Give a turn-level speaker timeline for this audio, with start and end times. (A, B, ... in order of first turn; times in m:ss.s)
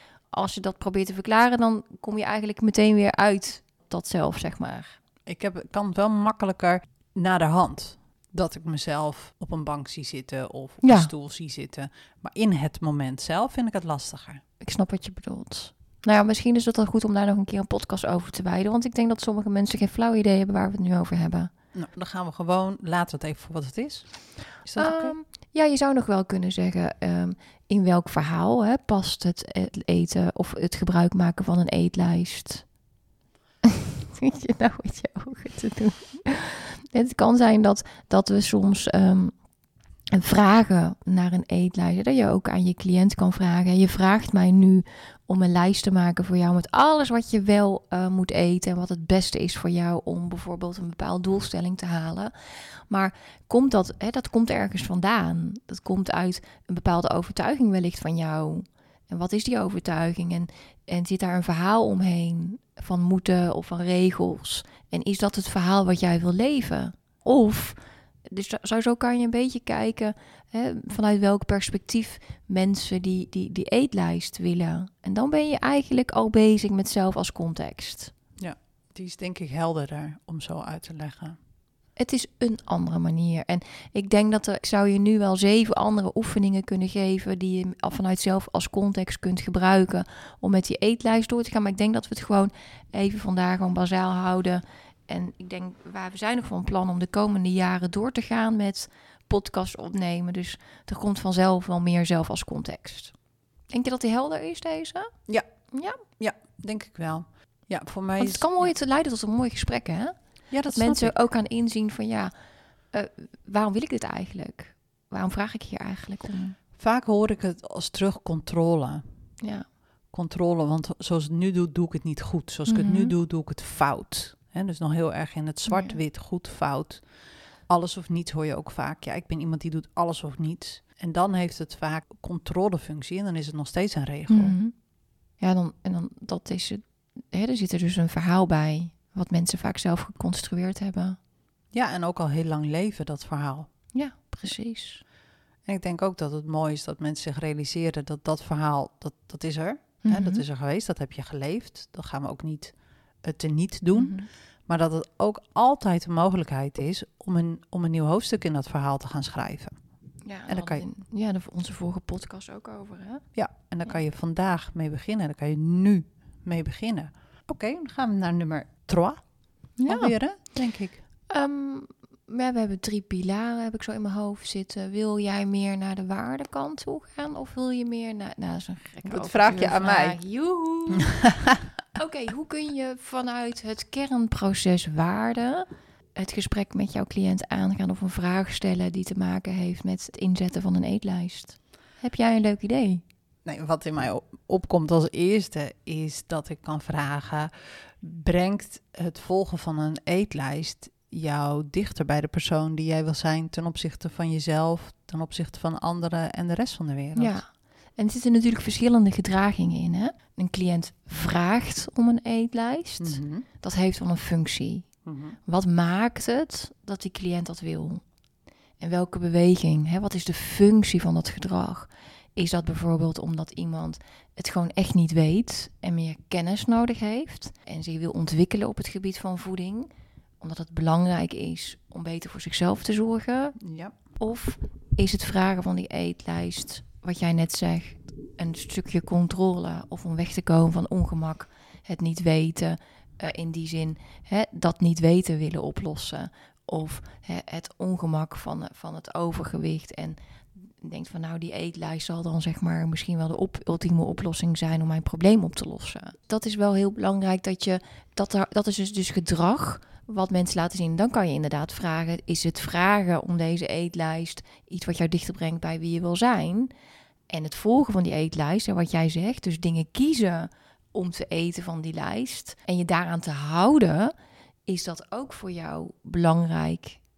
0:00.3-0:05.0 A
0:05.2-0:14.4 B
0:10.8-0:11.1 A
0:14.6-0:21.5 A
0:21.7-0:25.2 B
0:24.8-0:32.7 A
0:34.2-0:39.4 A
0:40.1-1:18.1 A
1:18.4-1:21.4 B
1:22.0-1:43.1 A
1:43.7-1:45.1 A
1:45.7-1:46.0 A
1:46.0-1:48.7 B
1:48.2-1:52.3 A
1:50.5-1:51.2 B
1:52.9-1:56.6 A
1:56.8-1:59.0 B
1:59.4-1:59.6 A
2:00.1-2:07.1 B
2:02.6-2:03.1 A
2:05.7-2:06.0 A
2:07.7-2:14.6 B
2:14.3-2:21.2 A
2:21.7-2:23.9 B
2:23.9-2:25.0 A
2:25.6-2:39.8 B
2:30.0-2:30.4 A
2:33.9-2:34.3 A
2:40.2-2:43.3 A
2:40.4-2:40.8 B
2:43.3-2:51.0 B
2:49.8-2:50.1 A
2:51.3-3:01.2 A
2:59.0-3:00.2 B
3:01.0-3:01.5 B
3:01.9-3:13.0 A
3:13.4-3:27.4 B
3:27.2-3:38.1 A
3:33.0-3:33.4 B
3:35.0-3:35.4 B
3:38.8-3:53.6 A
3:53.6-3:54.0 B
3:54.2-4:26.7 A
4:27.3-4:34.1 A
4:34.6-4:37.0 A